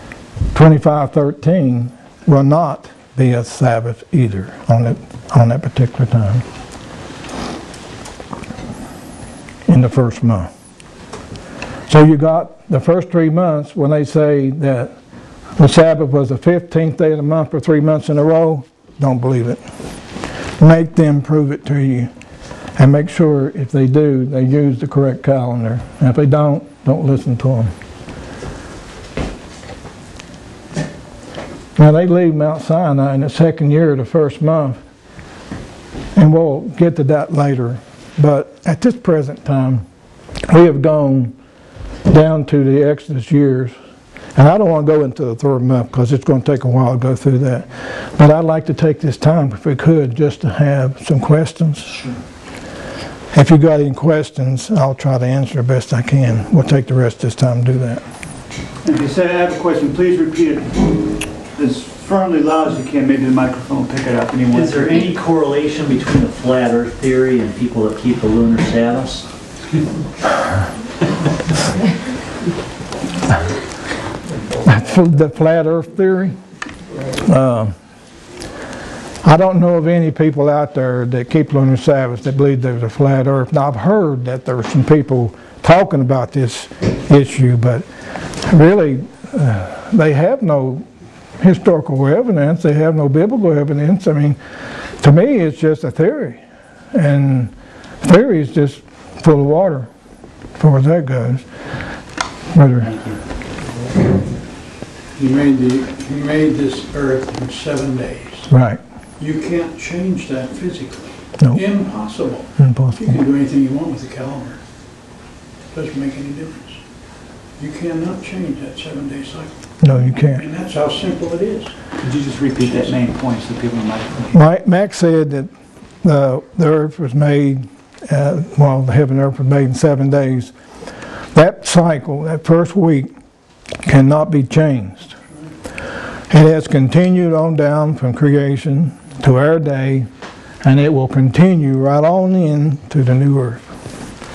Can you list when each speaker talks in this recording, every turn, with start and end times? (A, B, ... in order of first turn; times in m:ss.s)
0:00.5-0:06.4 A
0:09.7-0:10.5 A
0:11.9-0:14.9 A
0:15.6-0:19.6 A
0:20.6-0:22.1 A
0:22.8-0:27.7 A
0:31.8-0:34.8 A
0:36.1-0:39.8 A
0:40.5-0:41.3 A
0:42.1-0:43.7 A
0:44.3-0:51.9 A
0:51.9-0:52.2 B
0:53.3-0:58.0 A
0:58.8-1:01.0 B
1:01.5-1:05.1 B
1:04.5-1:09.2 C
1:14.6-1:16.4 A
1:17.2-1:17.7 A
1:19.2-1:27.8 A
1:28.4-1:30.8 A
1:31.4-1:34.4 A
1:35.0-1:36.4 A
1:36.9-1:39.9 A
1:40.6-1:41.4 A
1:42.5-1:42.9 A
1:42.8-1:43.2 C
1:45.2-1:48.5 D
1:48.5-1:48.8 A
1:49.2-1:54.6 D
1:52.6-1:53.2 A
1:55.7-1:56.8 D
1:57.6-2:01.7 D
1:59.8-2:00.4 A
2:02.0-2:04.4 B
2:04.3-2:05.5 A
2:06.0-2:10.5 A
2:11.3-2:13.1 A
2:13.8-2:15.1 A
2:16.3-2:20.1 A
2:20.6-2:23.6 A